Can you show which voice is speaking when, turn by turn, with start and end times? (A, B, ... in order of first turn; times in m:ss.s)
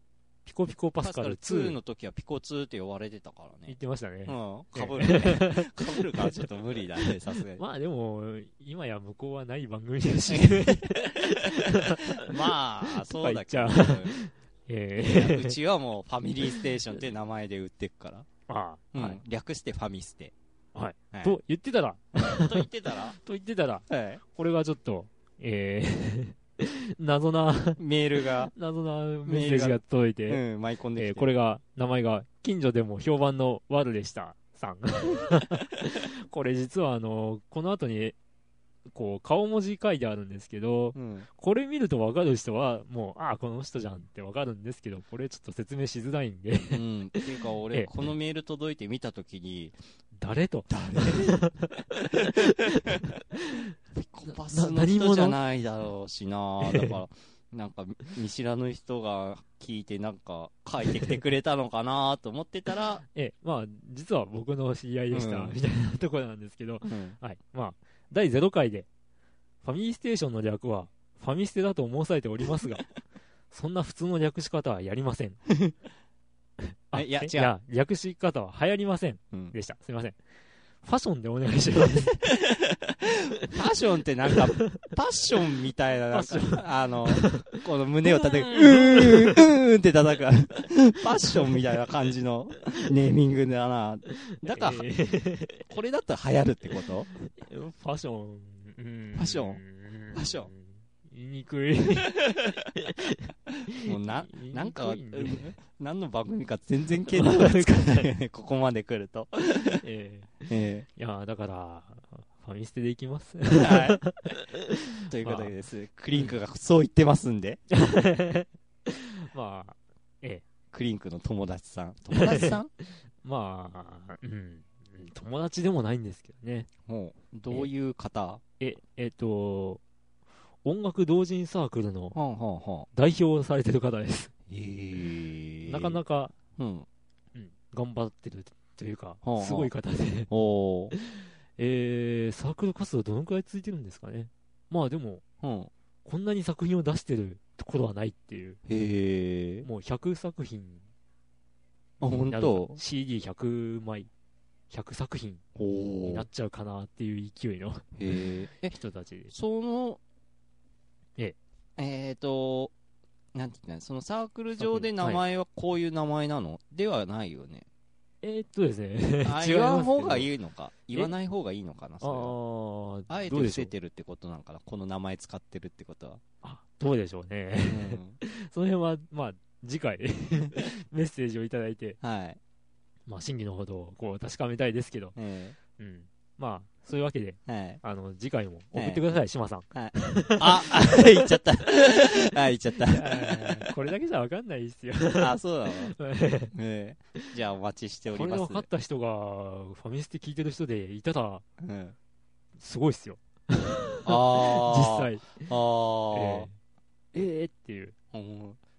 0:00.4-0:01.8 A
0:01.0-0:07.6 B
0:03.7-0:06.4 A
0:07.5-0:12.4 A
0:10.3-0:11.1 B
0:12.2-0:14.2 B
0:12.9-0:15.6 A
0:15.0-0:18.3 B
0:18.5-0:19.2 A
0:18.9-0:20.3 B
0:20.7-0:27.8 A
0:21.1-0:21.4 B
0:22.2-0:23.2 B
0:23.9-0:24.2 B
0:27.8-0:28.5 B
0:28.5-0:30.4 A
0:29.2-0:31.3 B
0:31.0-0:38.2 A
0:38.9-0:48.1 A
0:40.9-0:41.3 B
0:46.6-0:49.8 B
0:50.2-0:53.7 A
0:50.7-0:51.4 B
0:53.9-1:03.0 B
0:54.2-0:55.4 A
0:56.6-0:57.0 A
1:03.0-1:08.9 A
1:05.1-1:05.6 B
1:06.9-1:07.2 B
1:09.6-1:12.8 A
1:13.5-1:15.4 A
1:16.9-1:20.2 A
1:16.9-1:17.5 B
1:20.8-1:22.2 A
1:22.2-1:34.9 B
1:24.3-1:24.8 A
1:26.1-1:27.6 A
1:28.1-1:29.4 A
1:31.3-1:31.6 A
1:34.4-1:35.6 A
1:35.6-1:37.1 B
1:37.2-1:43.2 A
1:39.1-1:39.6 B
1:40.1-1:40.5 B
1:43.7-1:45.6 A
1:43.8-1:49.8 B
1:47.1-1:48.1 A
1:49.8-1:55.5 A
1:50.5-1:50.8 B
1:53.5-1:54.0 B
1:55.1-1:57.6 B
1:57.7-2:00.4 A
2:00.7-2:02.7 B
2:02.1-2:02.6 A
2:03.2-2:06.7 A
2:06.8-2:08.4 B
2:08.6-2:09.8 A
2:10.6-2:12.2 A
2:12.1-2:12.9 B
2:12.9-2:14.3 A
2:14.5-2:16.0 B
2:15.6-2:16.3 A
2:16.6-2:16.9 B
2:17.3-2:20.3 A
2:19.2-2:19.7 B
2:20.3-2:20.9 B
2:20.9-2:25.2 A
2:25.4-2:25.7 B
2:26.0-2:28.6 A
2:28.7-2:29.7 B
2:29.6-2:30.8 A
2:32.0-2:32.8 B
2:32.0-2:34.1 A
2:34.7-2:35.4 A
2:35.6-2:36.2 B
2:36.0-2:39.3 A
2:38.0-2:38.8 B
2:39.3-2:40.0 B
2:41.8-2:42.7 B
2:43.3-2:47.6 B
2:44.6-2:45.2 A
2:48.2-2:50.3 A
2:49.2-2:52.3 B
2:52.0-2:53.7 A
2:53.1-2:56.2 B
2:56.4-3:02.0 A
2:57.6-2:58.2 B
3:02.0-3:02.4 B
3:03.1-3:05.2 A
3:05.2-3:05.6 B
3:05.8-3:11.0 A
3:07.5-3:07.8 B
3:08.7-3:09.2 B
3:09.7-3:13.7 B
3:12.7-3:16.5 A
3:15.2-3:15.9 B
3:16.5-3:18.7 B
3:18.1-3:21.4 A
3:21.6-3:21.9 B
3:22.6-3:25.5 A
3:24.0-3:26.5 B
3:26.1-3:26.5 A
3:27.1-3:28.0 A
3:28.1-3:28.6 B